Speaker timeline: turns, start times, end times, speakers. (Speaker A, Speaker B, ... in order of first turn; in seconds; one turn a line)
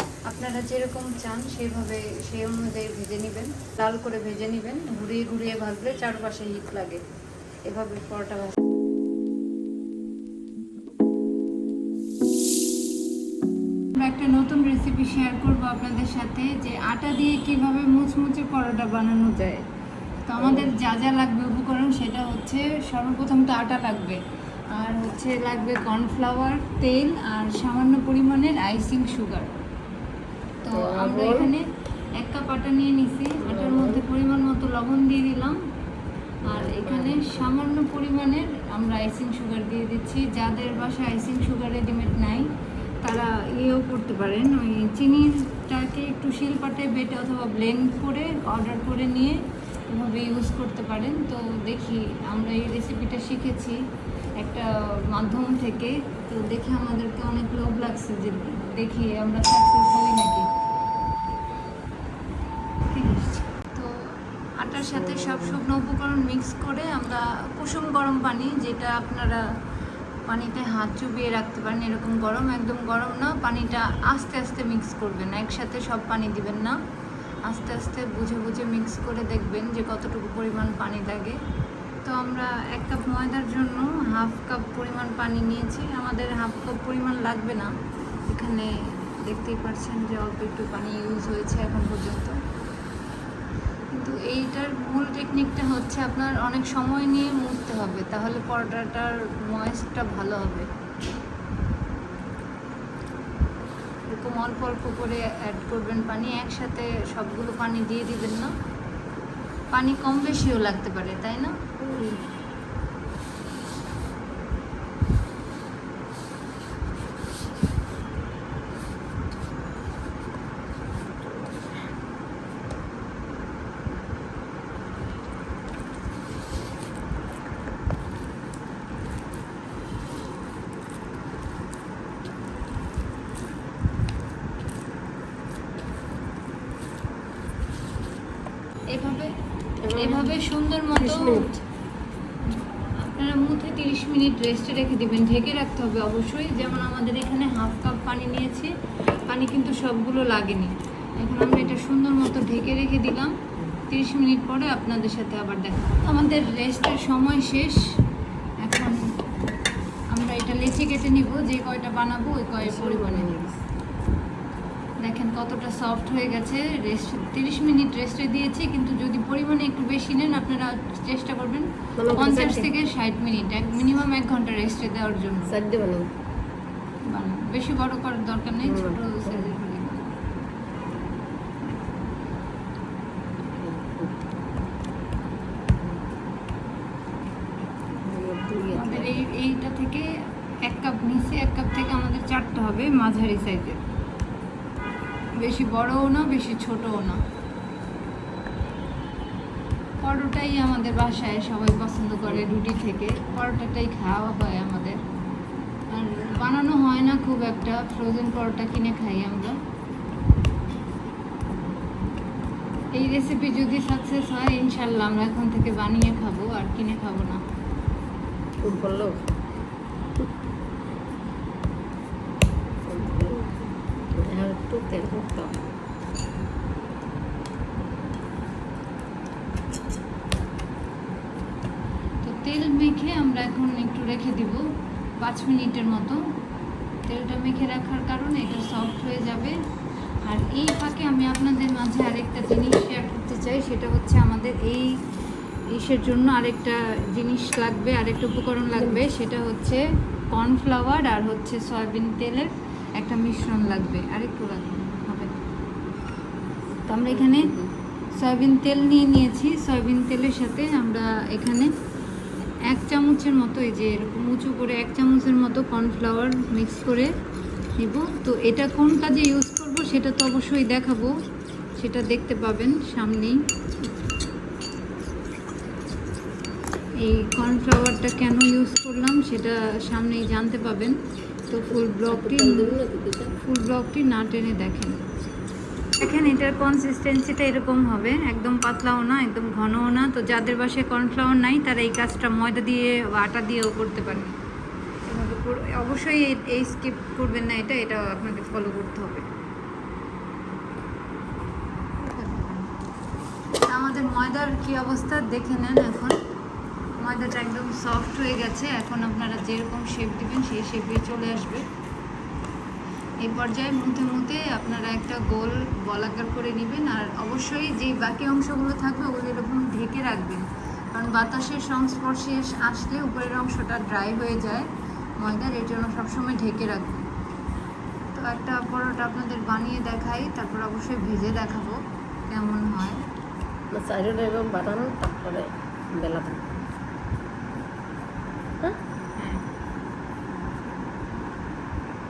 Speaker A: 0.2-7.0
Speaker A: 7.6-8.6
Speaker A: 13.9-19.6
Speaker A: 20.2-24.2
Speaker B: 20.4-20.7
Speaker A: 24.7-29.5
Speaker A: 30.6-35.6
Speaker B: 30.7-31.5
Speaker B: 33.4-34.0
Speaker B: 36.4-37.5
Speaker A: 36.4-42.5
Speaker A: 43.0-53.8
Speaker A: 54.4-60.5
Speaker A: 62.9-64.0
Speaker A: 64.5-69.5
Speaker B: 64.9-65.6
Speaker A: 70.3-76.8
Speaker A: 77.4-81.4
Speaker A: 82.0-87.7
Speaker A: 88.3-92.4
Speaker A: 93.9-100.7
Speaker A: 104.1-108.5
Speaker A: 109.7-111.5
Speaker B: 111.8-112.3
Speaker B: 121.2-121.7
Speaker A: 138.9-139.3
Speaker B: 139.8-140.4
Speaker A: 139.9-141.6
Speaker B: 140.9-141.5
Speaker A: 142.4-148.7
Speaker A: 149.2-153.3
Speaker A: 153.9-157.8
Speaker A: 158.6-159.1
Speaker A: 160.1-163.3
Speaker B: 162.6-163.6
Speaker A: 165.0-175.5
Speaker B: 171.9-172.7
Speaker B: 175.5-176.1
Speaker A: 177.1-180.1
Speaker B: 178.6-179.5
Speaker B: 183.5-184.2
Speaker B: 185.8-186.0
Speaker B: 187.9-189.3
Speaker A: 188.7-190.1
Speaker A: 190.6-193.8
Speaker A: 195.4-197.2
Speaker A: 200.0-205.0
Speaker A: 205.9-209.6
Speaker A: 212.9-217.4
Speaker B: 218.6-219.3
Speaker B: 222.8-223.6
Speaker B: 224.1-225.7
Speaker A: 232.2-234.6
Speaker A: 235.2-236.2
Speaker A: 237.1-239.6
Speaker A: 240.2-244.9
Speaker A: 245.7-255.4
Speaker A: 256.9-257.5
Speaker B: 257.1-257.7
Speaker A: 258.2-261.7
Speaker A: 262.7-267.1
Speaker A: 267.8-271.1
Speaker A: 271.8-273.4
Speaker A: 277.0-282.8
Speaker B: 281.7-283.4
Speaker A: 283.4-285.0
Speaker A: 286.0-294.4
Speaker A: 295.1-299.3
Speaker A: 302.0-302.7
Speaker A: 303.6-306.2
Speaker A: 307.0-311.7
Speaker A: 313.2-324.7
Speaker A: 325.2-327.1
Speaker A: 328.1-333.0
Speaker B: 333.7-336.5
Speaker A: 339.2-339.4